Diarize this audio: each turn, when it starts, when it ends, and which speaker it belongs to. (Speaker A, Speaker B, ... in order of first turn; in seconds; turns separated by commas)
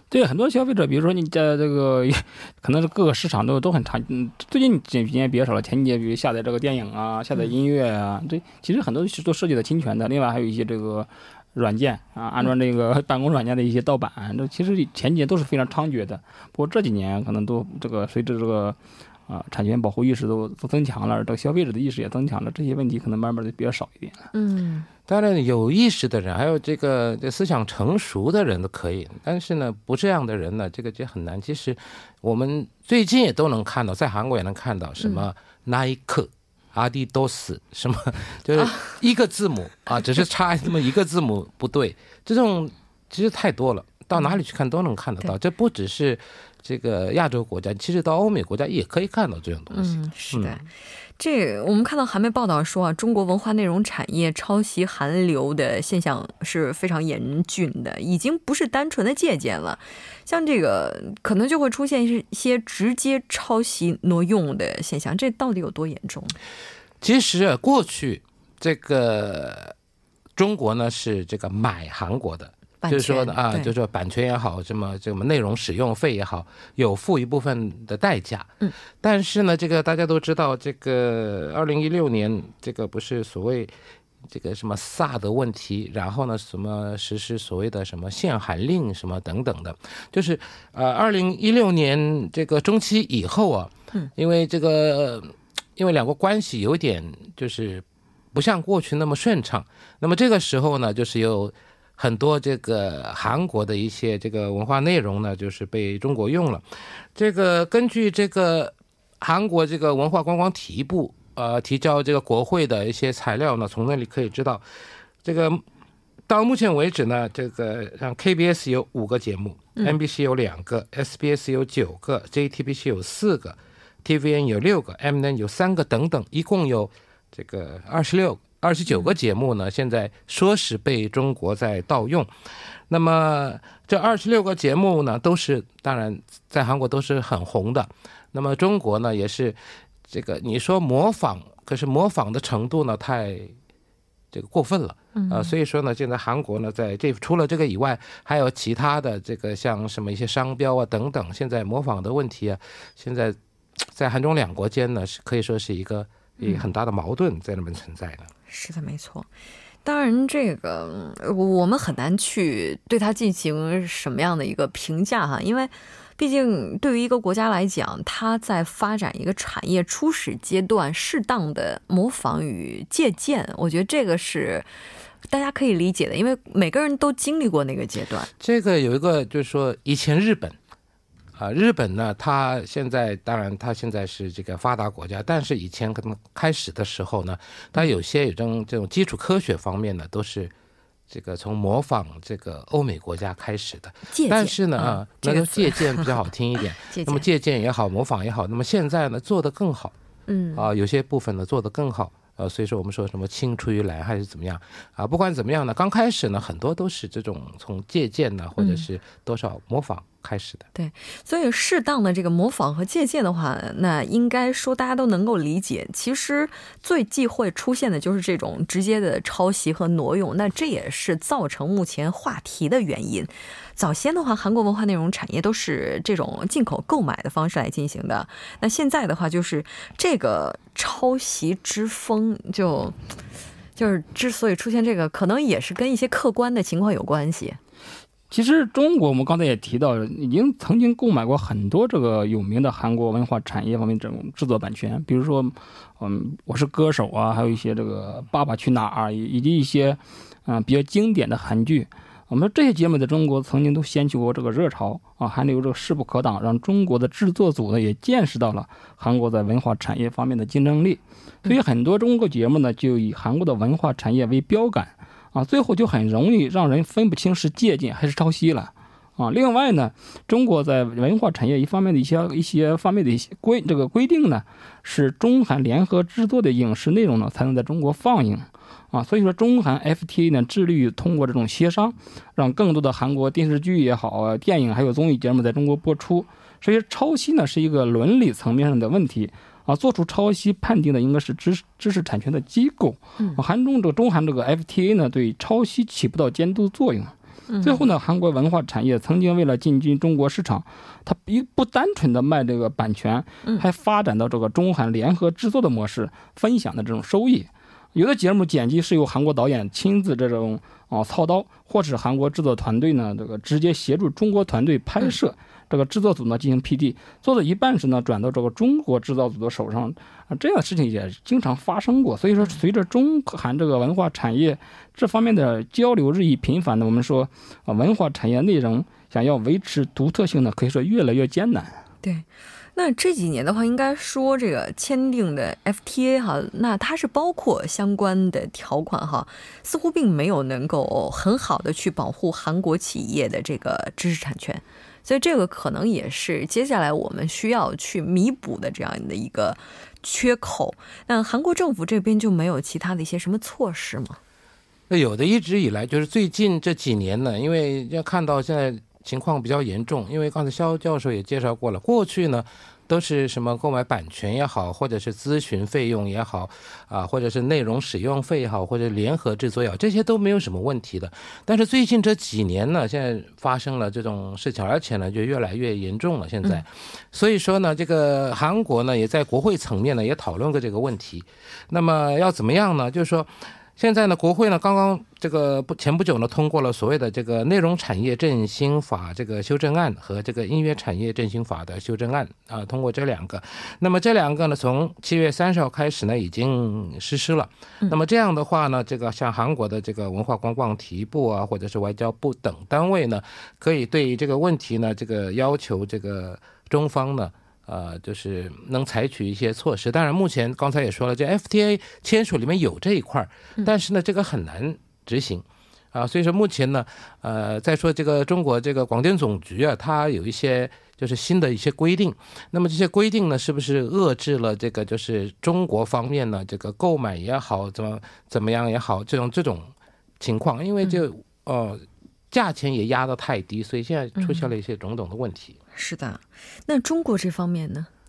Speaker A: 0.1-18.8, Speaker A: 19.3-24.3, Speaker B: 24.3-24.9, Speaker C: 25.1-50.6, Speaker B: 35.0-35.3, Speaker B: 38.6-38.9, Speaker B: 49.7-66.4, Speaker C: 67.0-69.7, Speaker C: 70.4-83.7, Speaker B: 72.8-73.7, Speaker C: 84.3-106.6, Speaker C: 107.2-114.6, Speaker C: 115.2-115.6, Speaker C: 116.3-132.3, Speaker C: 132.9-143.5, Speaker C: 144.3-158.3, Speaker B: 145.2-145.5, Speaker B: 156.4-156.7, Speaker B: 158.5-159.3, Speaker B: 159.8-174.7, Speaker B: 175.3-178.3, Speaker C: 178.4-180.6, Speaker C: 181.4-190.5, Speaker C: 191.1-199.9, Speaker B: 194.1-196.2, Speaker B: 196.9-197.3, Speaker B: 200.3-200.7, Speaker C: 200.6-210.7, Speaker B: 208.6-208.8, Speaker B: 210.8-233.0, Speaker B: 233.8-237.6, Speaker A: 238.3-331.8, Speaker B: 297.5-297.9, Speaker B: 332.0-354.2, Speaker C: 354.9-435.6, Speaker B: 434.2-434.5, Speaker B: 435.8-437.9